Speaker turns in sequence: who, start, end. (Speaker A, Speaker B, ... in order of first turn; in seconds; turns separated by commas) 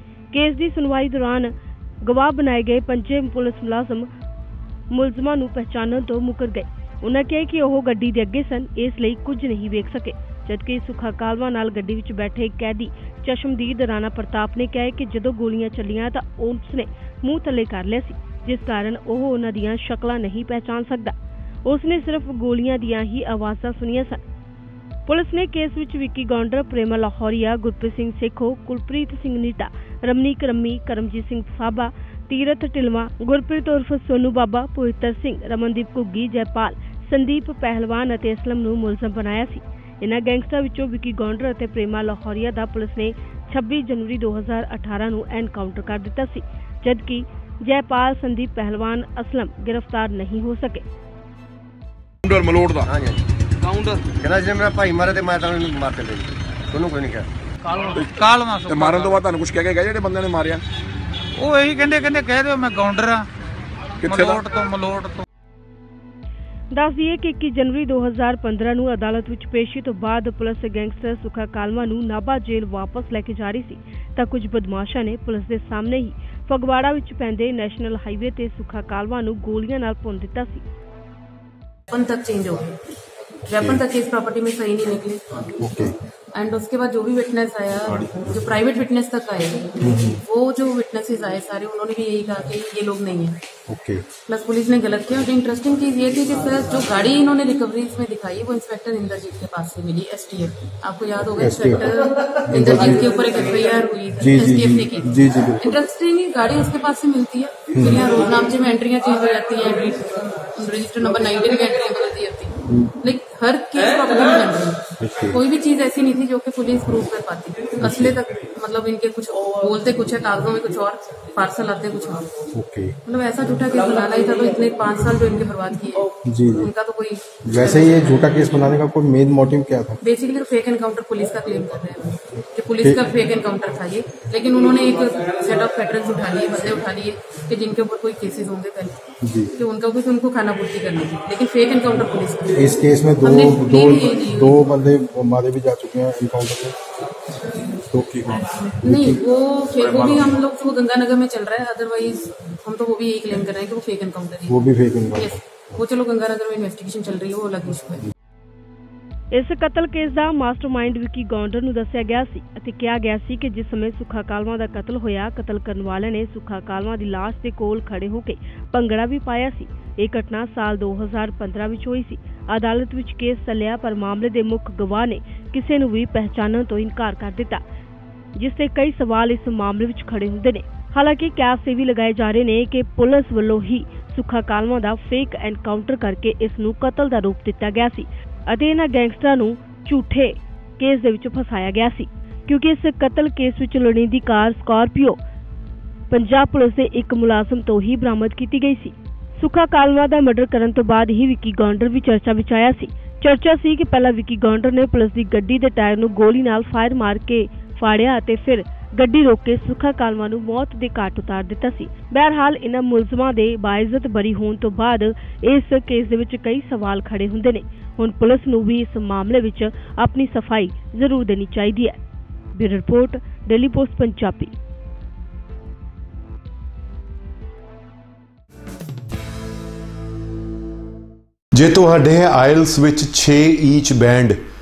Speaker A: 0.3-4.1, Speaker A: 4.9-24.2, Speaker A: 25.1-50.8, Speaker B: 52.2-52.9, Speaker C: 52.9-53.2, Speaker D: 53.7-54.0, Speaker C: 54.1-57.3, Speaker D: 57.7-59.2, Speaker B: 58.7-60.6, Speaker D: 61.4-63.3, Speaker B: 64.0-64.4, Speaker D: 64.0-65.2, Speaker A: 66.7-80.6, Speaker E: 81.9-82.7, Speaker E: 83.5-85.2, Speaker F: 83.5-83.8, Speaker F: 85.6-86.0, Speaker E: 86.3-93.4, Speaker F: 89.8-90.2, Speaker F: 93.7-94.0, Speaker E: 94.2-122.3, Speaker F: 101.3-101.9, Speaker F: 102.5-103.1, Speaker F: 104.2-105.8, Speaker F: 107.7-108.1, Speaker F: 115.0-115.4, Speaker F: 117.8-118.2, Speaker F: 122.5-123.0, Speaker E: 123.0-128.2, Speaker F: 126.2-126.7, Speaker F: 127.4-130.0, Speaker E: 130.0-139.0, Speaker F: 139.2-139.5, Speaker E: 139.5-144.6, Speaker F: 142.5-146.8, Speaker F: 147.7-149.2, Speaker E: 148.7-158.0, Speaker F: 154.5-155.7, Speaker A: 159.3-177.6, Speaker A: 178.3-195.2, Speaker A: 196.1-222.0, Speaker A: 222.5-224.5, Speaker G: 231.6-234.3